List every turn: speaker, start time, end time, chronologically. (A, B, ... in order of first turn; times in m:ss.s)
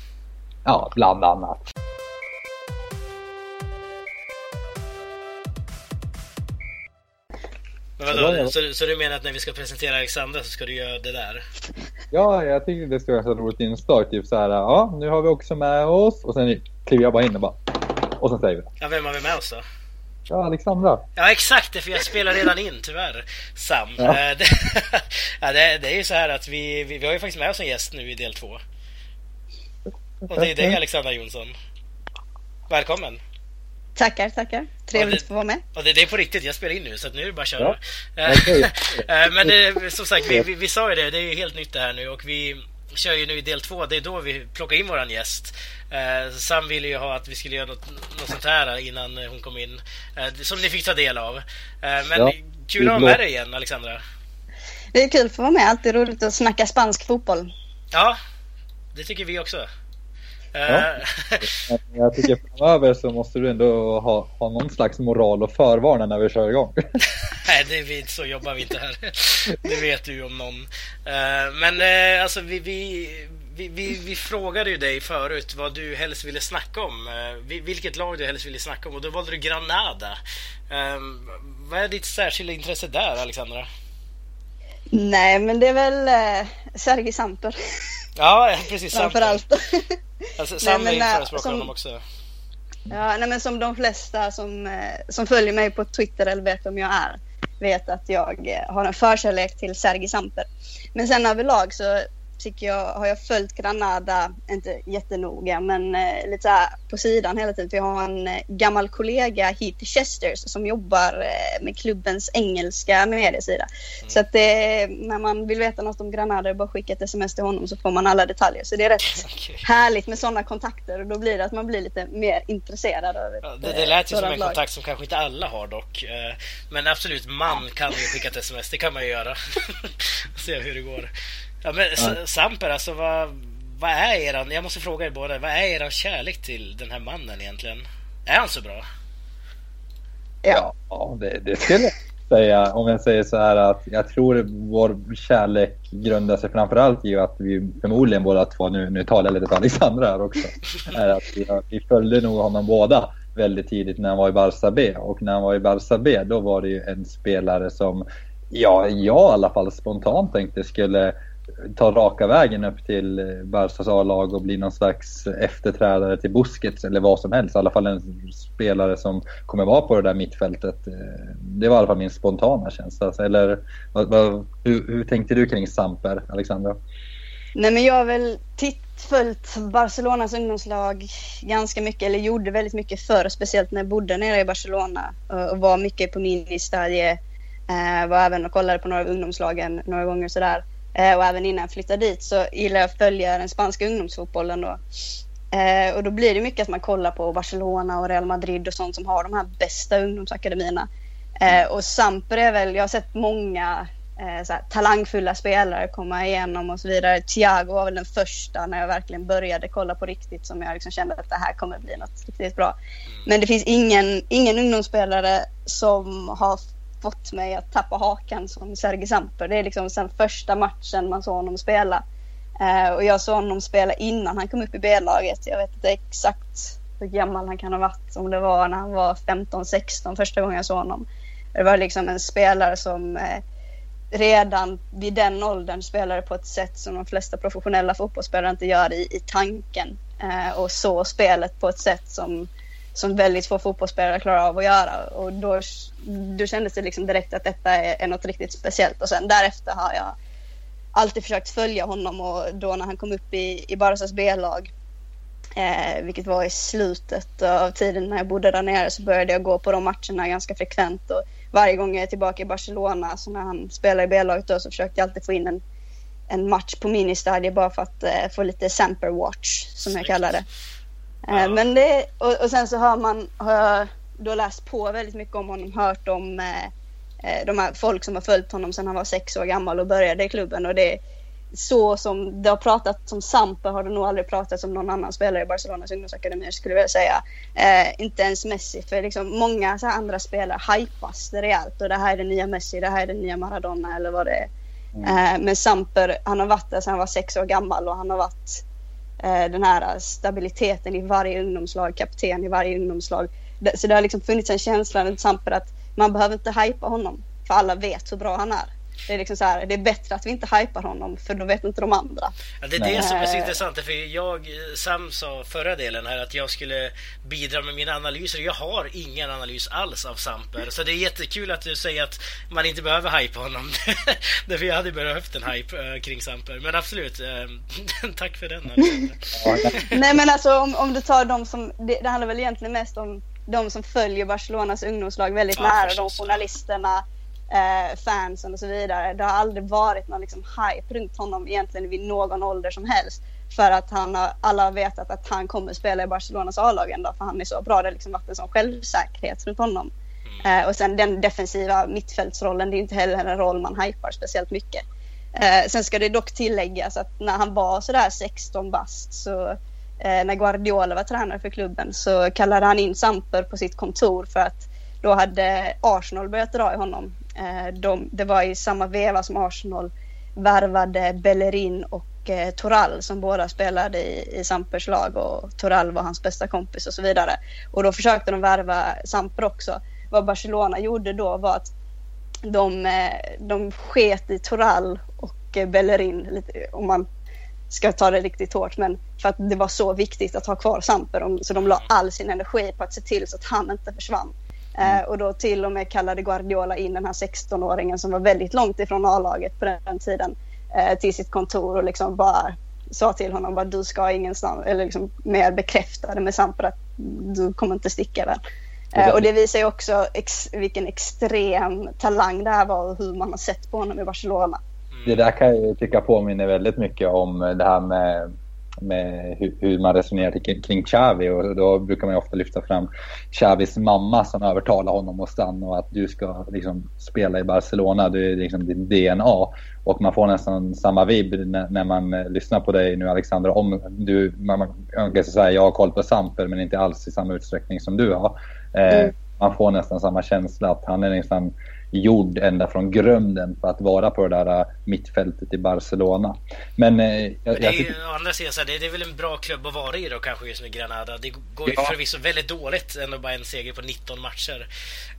0:00.7-0:01.7 A
0:08.0-0:11.4 B
0:08.1-0:08.5 A
0:12.1-0:18.7 A
0:18.8-0:19.6 B
0:20.3-0:21.0 A
0:21.2-0:28.6 B
0:30.2-0:30.8 A
0:30.3-0:31.5 B
0:32.7-0:33.2 B
0:34.0-0:35.6 C
0:35.0-0:35.2 B
0:35.8-0:54.0 B
0:38.3-0:39.6 A
0:52.2-0:53.2 A
0:54.9-0:57.5 C
0:57.9-0:58.2 B
0:58.9-0:59.7 B
1:00.6-1:01.5 B
1:01.6-1:06.8 A
1:07.2-1:20.2 B
1:20.7-1:23.7 B
1:24.9-1:27.6 C
1:28.2-1:29.4 B
1:28.9-1:30.0 C
1:30.4-1:32.0 B
1:30.6-1:31.7 C
1:32.9-2:04.6 C
1:59.2-1:59.7 B
2:03.4-2:11.1 B
2:11.6-2:18.8 B
2:20.5-2:56.8 A
2:57.6-3:14.8 C
3:15.5-3:20.9 C
3:21.4-3:42.0 C
3:42.6-3:53.4 C
3:54.1-4:10.2 C
4:11.0-4:14.7 C
4:15.6-4:25.6 C
4:26.3-4:30.4 C
4:29.9-4:30.4 B
4:31.3-4:36.7 C
4:31.3-4:31.6 B
4:37.2-4:41.0 C
4:41.5-4:54.5 C
4:55.0-4:58.6 C
4:59.2-5:12.4 C
5:12.6-5:30.0 B
5:12.8-5:13.0 A
5:13.0-5:13.6 C
5:29.4-5:30.2 A
5:29.8-5:49.9 C
5:35.6-5:36.4 B
5:50.4-5:54.8 C
5:55.4-6:21.7 C
6:22.5-6:27.1 C
6:27.7-6:48.4 C
6:31.6-6:31.9 B
6:49.0-6:49.3 A
6:49.0-6:54.6 C
6:54.9-6:55.2 B
6:55.1-7:27.9 A
7:27.5-7:34.7 B
7:31.7-7:32.0 A